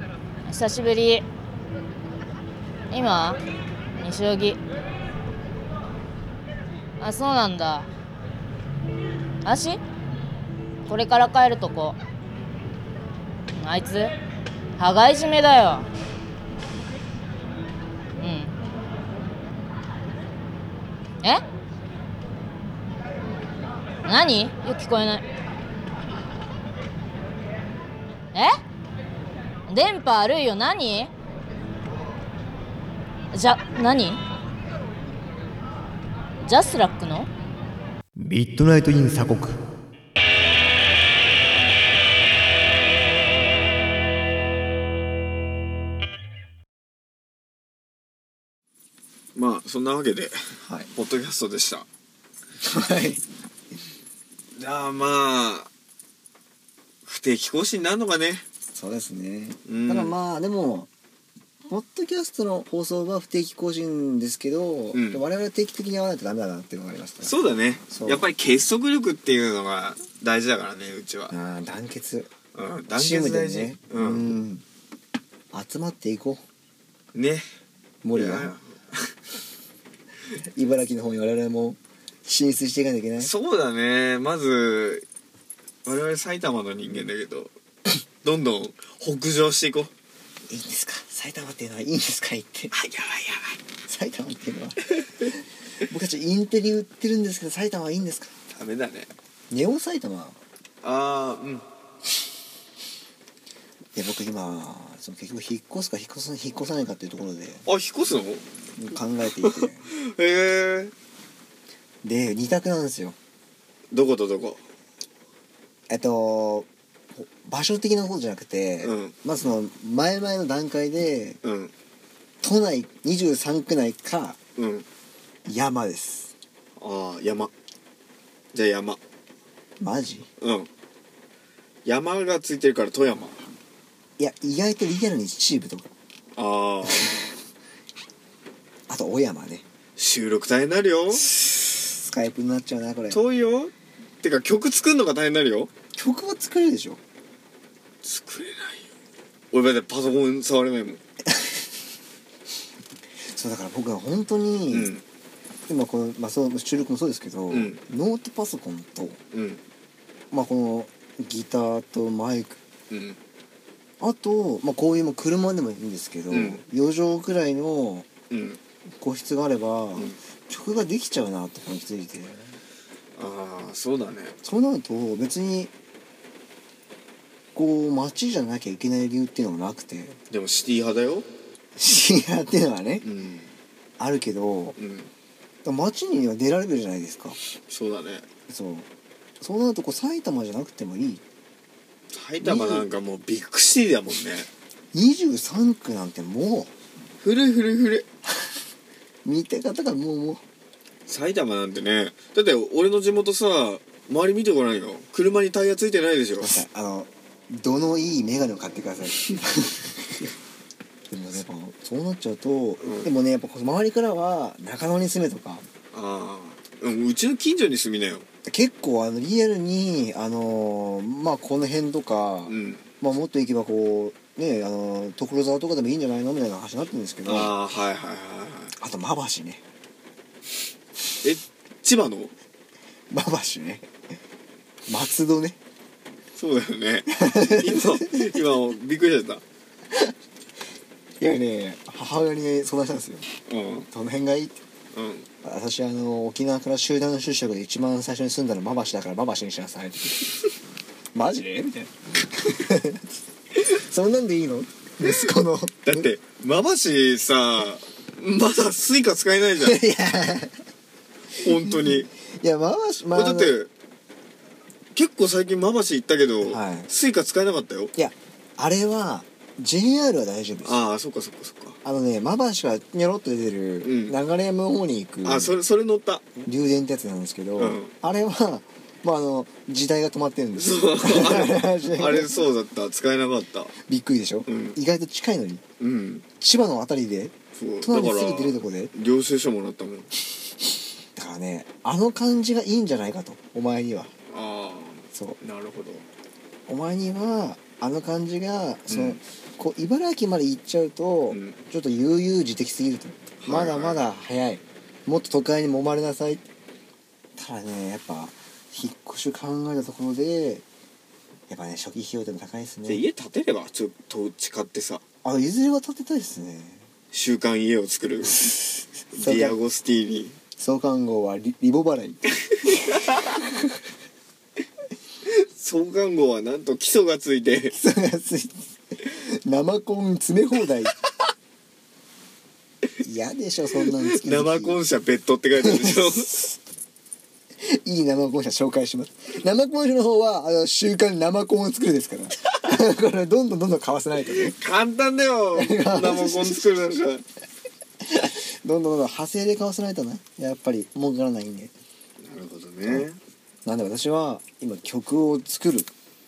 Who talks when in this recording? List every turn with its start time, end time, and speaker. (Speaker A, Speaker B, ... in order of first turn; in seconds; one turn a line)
Speaker A: 0.5-1.2
Speaker A: 2.9-3.4
Speaker A: 4.0-4.6
Speaker A: 7.0-7.9
Speaker A: 9.4-9.8
Speaker A: 10.8-12.0
Speaker A: 13.6-14.1
Speaker A: 14.8-15.9
Speaker A: 18.2-18.5
Speaker A: 24.0-25.2
Speaker A: 29.7-31.1
Speaker A: 33.3-34.2
Speaker A: 36.4-37.3
Speaker B: 38.2-39.6
Speaker C: 49.3-51.9
Speaker B: 50.6-50.9
Speaker B: 52.6-53.2
Speaker C: 54.6-55.7
Speaker C: 57.0-58.4
Speaker B: 58.7-60.9
Speaker C: 59.6-60.1
Speaker B: 61.7-67.3
Speaker C: 64.9-65.2
Speaker C: 67.2-71.3
Speaker B: 67.9-68.2
Speaker B: 71.3-72.3
Speaker C: 72.5-74.3
Speaker B: 72.9-74.6
Speaker B: 75.5-76.4
Speaker C: 77.1-77.4
Speaker B: 78.0-78.5
Speaker C: 78.1-79.1
Speaker B: 80.4-83.3
Speaker C: 83.2-85.0
Speaker C: 85.8-87.5
Speaker C: 88.2-89.9
Speaker B: 90.5-92.7
Speaker C: 92.7-93.6
Speaker B: 93.9-95.3
Speaker B: 95.8-98.3
Speaker C: 98.5-99.1
Speaker B: 99.5-100.4
Speaker C: 100.8-101.6
Speaker B: 103.9-107.6
Speaker C: 107.6-108.4
Speaker B: 108.8-109.9
Speaker C: 109.4-110.9
Speaker B: 112.0-113.2
Speaker C: 113.9-114.6
Speaker B: 115.9-121.4
Speaker C: 118.8-119.1
Speaker C: 121.4-121.7
Speaker B: 122.4-124.4
Speaker C: 124.6-124.8
Speaker B: 125.5-126.3
Speaker C: 126.8-127.5
Speaker C: 128.5-129.0
Speaker B: 129.8-130.3
Speaker C: 130.4-130.7
Speaker C: 131.8-133.4
Speaker B: 134.2-135.9
Speaker C: 136.3-137.2
Speaker B: 138.9-139.6
Speaker C: 140.0-141.3
Speaker B: 141.7-143.2
Speaker C: 143.1-145.7
Speaker B: 145.9-147.0
Speaker C: 148.0-148.8
Speaker C: 149.5-151.0
Speaker B: 153.3-154.9
Speaker C: 154.7-155.0
Speaker B: 155.7-159.2
Speaker C: 157.5-157.8
Speaker C: 159.3-159.6
Speaker B: 160.3-162.6
Speaker C: 162.9-163.2
Speaker B: 164.0-168.1
Speaker C: 166.3-166.6
Speaker C: 168.3-168.6
Speaker B: 169.0-172.5
Speaker C: 173.2-174.3
Speaker B: 174.4-175.7
Speaker B: 177.5-180.2
Speaker C: 180.3-181.2
Speaker B: 181.8-183.1
Speaker C: 183.0-183.5
Speaker B: 184.0-184.8
Speaker C: 184.8-185.1
Speaker B: 185.6-187.4
Speaker C: 187.7-188.2
Speaker B: 188.5-188.9
Speaker B: 189.4-191.2
Speaker C: 192.1-194.5
Speaker B: 192.4-192.9
Speaker B: 194.9-196.7
Speaker C: 197.2-198.0
Speaker B: 199.2-200.4
Speaker C: 201.1-206.6
Speaker B: 206.4-210.3
Speaker B: 211.1-215.6
Speaker C: 212.8-213.1
Speaker C: 215.9-218.2
Speaker B: 218.4-227.6
Speaker C: 222.5-222.8
Speaker C: 227.2-228.7
Speaker B: 228.8-229.6
Speaker C: 231.2-232.3
Speaker B: 233.1-233.9
Speaker B: 234.9-235.6
Speaker C: 236.3-239.4
Speaker B: 237.1-238.3
Speaker B: 241.2-243.2
Speaker C: 243.5-243.9
Speaker B: 243.9-244.6
Speaker C: 244.9-245.3
Speaker B: 245.4-250.2
Speaker B: 251.1-253.0
Speaker B: 253.6-256.1
Speaker C: 255.0-255.3
Speaker C: 255.8-259.8
Speaker B: 259.6-260.6
Speaker C: 261.4-262.1
Speaker B: 261.4-263.6
Speaker C: 263.1-263.7
Speaker C: 264.9-267.9
Speaker B: 266.4-266.9
Speaker B: 267.9-270.8
Speaker C: 270.6-271.8
Speaker B: 271.8-275.6
Speaker C: 273.8-274.2
Speaker C: 275.2-276.4
Speaker B: 276.4-282.3
Speaker C: 277.6-277.9
Speaker C: 280.6-283.7
Speaker B: 283.9-285.6
Speaker C: 284.5-284.8
Speaker C: 285.8-286.2
Speaker B: 286.4-288.9
Speaker C: 287.6-290.1
Speaker B: 291.1-294.1
Speaker C: 294.3-296.1
Speaker B: 295.1-295.4
Speaker B: 296.7-306.4
Speaker C: 298.9-299.2
Speaker C: 301.3-301.6
Speaker C: 303.4-304.1
Speaker B: 307.4-310.6
Speaker B: 311.5-313.0
Speaker C: 312.9-315.0
Speaker B: 315.2-316.8
Speaker C: 317.1-320.4
Speaker B: 319.1-319.6
Speaker B: 320.6-323.4
Speaker C: 322.9-323.3
Speaker C: 325.3-327.7
Speaker B: 327.7-330.9
Speaker B: 333.0-334.8
Speaker C: 333.9-336.4
Speaker B: 335.6-336.5
Speaker B: 337.6-344.6
Speaker C: 344.2-347.2
Speaker B: 345.5-346.7
Speaker B: 348.0-351.7
Speaker C: 352.2-353.2
Speaker B: 353.6-355.9